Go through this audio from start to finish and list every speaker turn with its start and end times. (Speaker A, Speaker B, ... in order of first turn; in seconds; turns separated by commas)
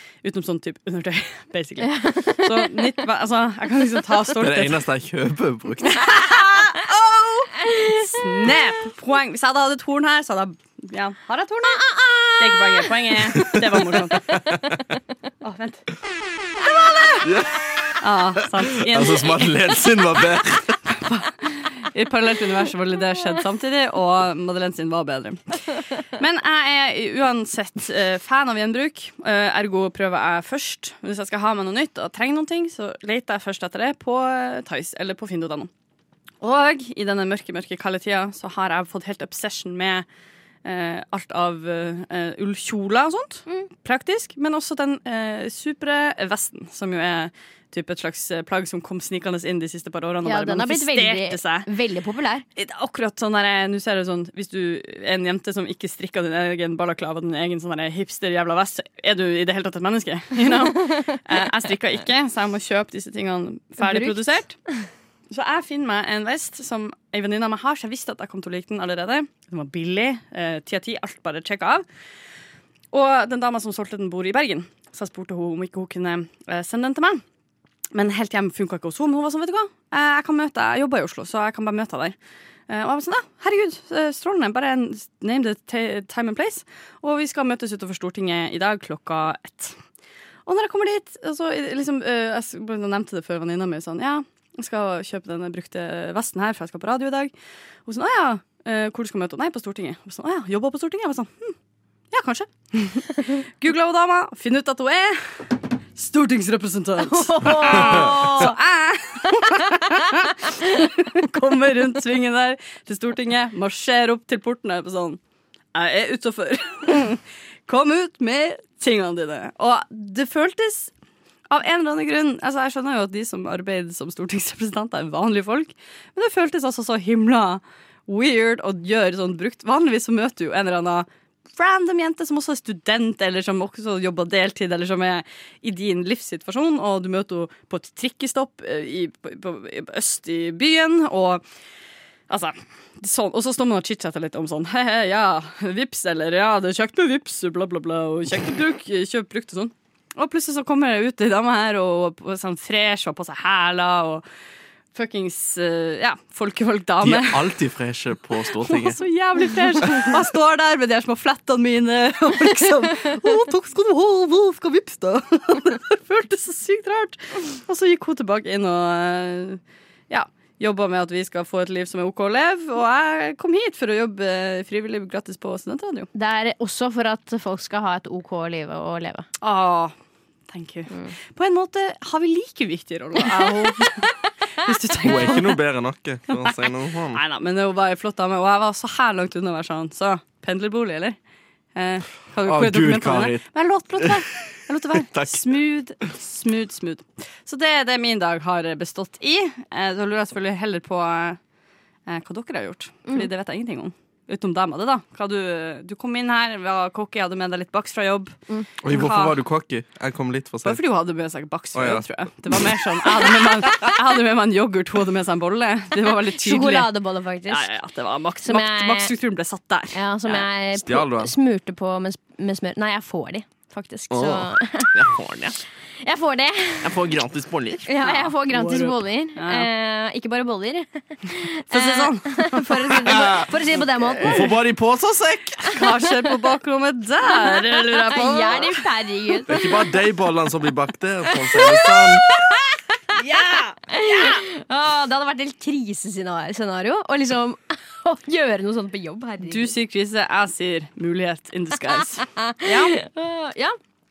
Speaker A: 0.2-4.8, Speaker B: 1.8-2.7, Speaker C: 4.4-6.0, Speaker A: 5.8-14.4, Speaker B: 11.8-12.1, Speaker C: 13.4-14.8, Speaker A: 15.4-15.9, Speaker C: 17.2-17.6, Speaker A: 18.0-19.6, Speaker C: 18.9-20.9, Speaker A: 20.9-35.7, Speaker A: 36.4-40.1, Speaker A: 40.6-51.7, Speaker B: 50.2-52.5, Speaker A: 52.6-64.6, Speaker B: 63.8-64.4, Speaker A: 65.3-71.8, Speaker A: 72.9-77.2, Speaker A: 77.9-82.2, Speaker A: 82.7-89.8, Speaker A: 90.5-97.3, Speaker A: 97.9-101.6, Speaker A: 102.1-115.2, Speaker B: 107.1-108.5, Speaker C: 107.8-108.2, Speaker A: 115.7-120.9, Speaker A: 121.5-141.4, Speaker A: 142.3-154.2, Speaker A: 154.9-157.5, Speaker C: 157.0-159.0, Speaker A: 158.6-176.1, Speaker B: 176.1-179.3, Speaker A: 179.4-179.9, Speaker A: 180.5-185.5, Speaker C: 185.0-187.2, Speaker A: 187.1-191.2, Speaker A: 191.8-201.4, Speaker C: 192.4-194.2, Speaker C: 194.9-195.4, Speaker A: 202.1-209.4, Speaker C: 208.8-210.8, Speaker A: 210.6-216.9, Speaker C: 211.8-212.1, Speaker B: 216.4-217.7, Speaker A: 217.5-220.4, Speaker B: 218.4-219.1, Speaker B: 219.9-225.1, Speaker C: 220.7-221.3, Speaker C: 224.1-225.6, Speaker B: 226.0-227.0, Speaker C: 226.8-227.9, Speaker B: 227.9-234.6, Speaker A: 228.0-229.7, Speaker A: 231.7-233.5, Speaker C: 233.1-233.5, Speaker C: 234.2-235.7, Speaker A: 235.7-238.8, Speaker B: 237.4-239.9, Speaker C: 239.5-242.3, Speaker B: 241.3-249.7, Speaker A: 243.2-244.4, Speaker A: 249.4-252.9, Speaker B: 252.2-253.8